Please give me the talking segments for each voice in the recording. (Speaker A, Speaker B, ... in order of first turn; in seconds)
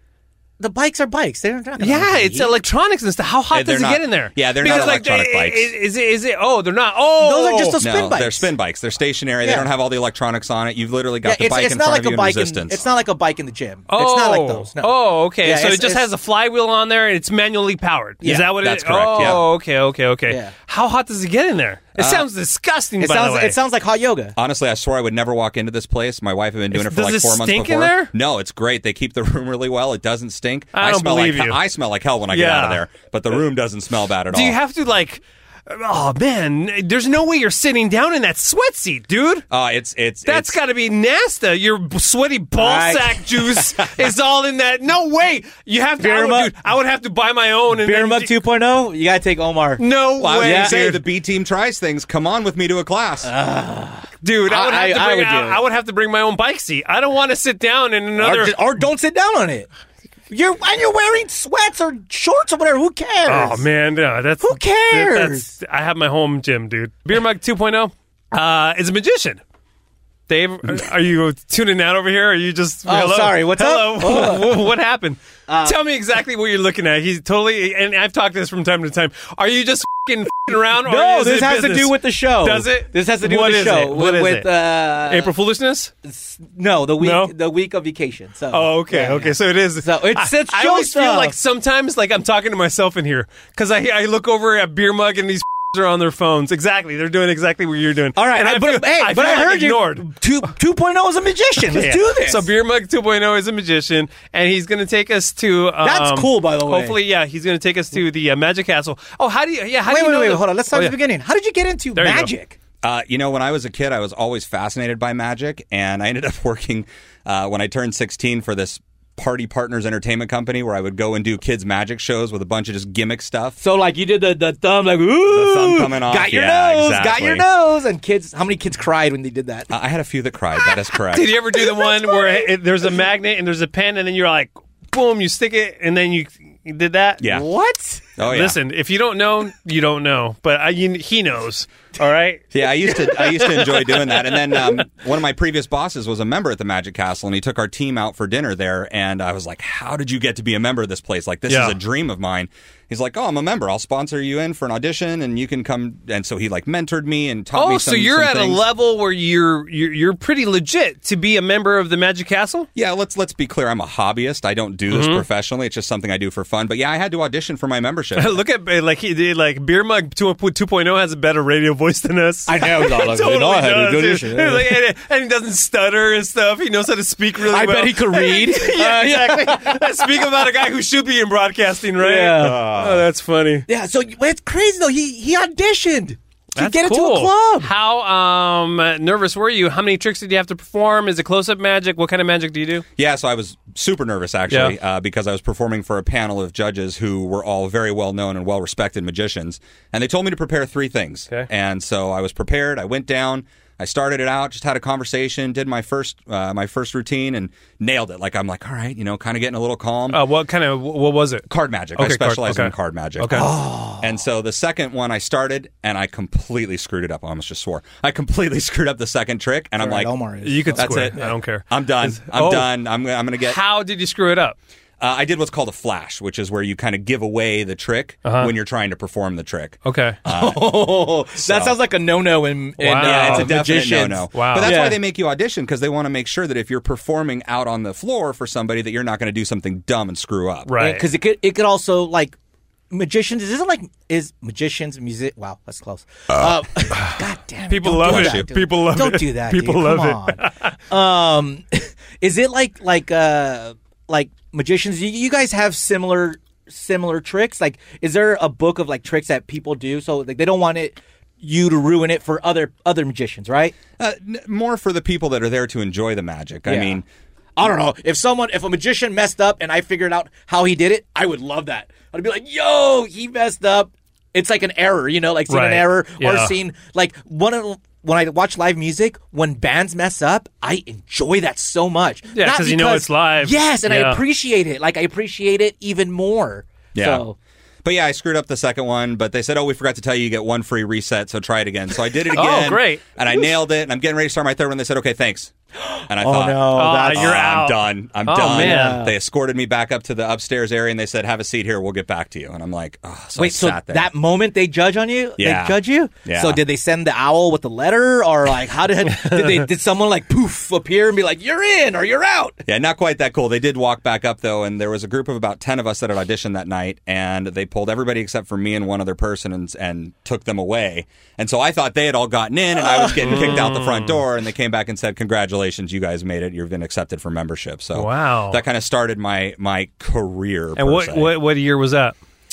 Speaker A: 0.6-2.6, 7.2-8.5, 9.4-9.7, 11.2-16.0, 18.2-18.5, 20.3-20.5, 23.0-24.4, 42.6-43.7, 46.0-46.5, 47.7-49.8, 50.4-51.0, 53.2-55.6, 58.2-59.7, 60.3-63.6, 64.4-65.5, 72.9-74.6, 75.5-75.8, 80.5-85.3, 86.0-91.4, 98.1-102.5, 105.8-107.0, 109.9-112.6, 123.6-129.7, 131.6-132.5, 137.3-138.0, 172.4-174.8, 177.5-180.1, 182.0-182.6, 183.7-187.7, 213.3-214.1, 219.8-221.3, 230.3-235.0, 240.8-242.4, 242.9-263.8, 266.6-267.0, 267.6-287.4, 295.8-297.3, 298.4-299.1, 303.4-312.6, 322.9-323.3
Speaker B: 1.8-7.8, 13.9-23.6, 26.7-28.1, 30.8-31.6, 32.3-32.8, 34.3-39.5, 40.2-48.4, 49.8-51.0, 54.2-58.6, 63.3-69.4, 70.3-85.9, 87.0-87.3, 88.5-100.1, 101.7-111.0, 112.0-112.3, 131.1-137.3, 138.2-143.5, 151.5-151.8, 157.5-162.7, 164.9-165.2, 168.2-183.7, 186.6-192.9, 194.5-194.8, 210.1-213.5, 220.4-222.7, 223.4-224.6, 228.2-228.5, 229.8-230.2, 232.8-233.6, 234.3-234.8, 240.7-241.1, 247.7-250.7, 275.5-276.5, 282.4-284.2, 292.4-293.0, 296.7-299.0, 323.2-324.2, 327.9-328.6, 330.8-332.1
Speaker C: 3.5-5.7, 7.8-12.8, 18.5-19.4, 22.0-22.3, 24.4-34.6, 39.5-40.6, 50.2-53.3, 112.8-123.6, 125.3-127.5, 129.7-131.4, 137.2-137.4, 138.2-138.6, 142.5-158.6, 162.8-168.4, 182.4-183.1, 193.0-210.2, 211.5-220.1, 220.8-223.6, 225.0-231.8, 233.0-240.7, 248.0-248.5, 264.0-267.1, 286.9-287.2, 287.8-295.5, 296.1-304.1, 305.4-306.6, 312.6-331.4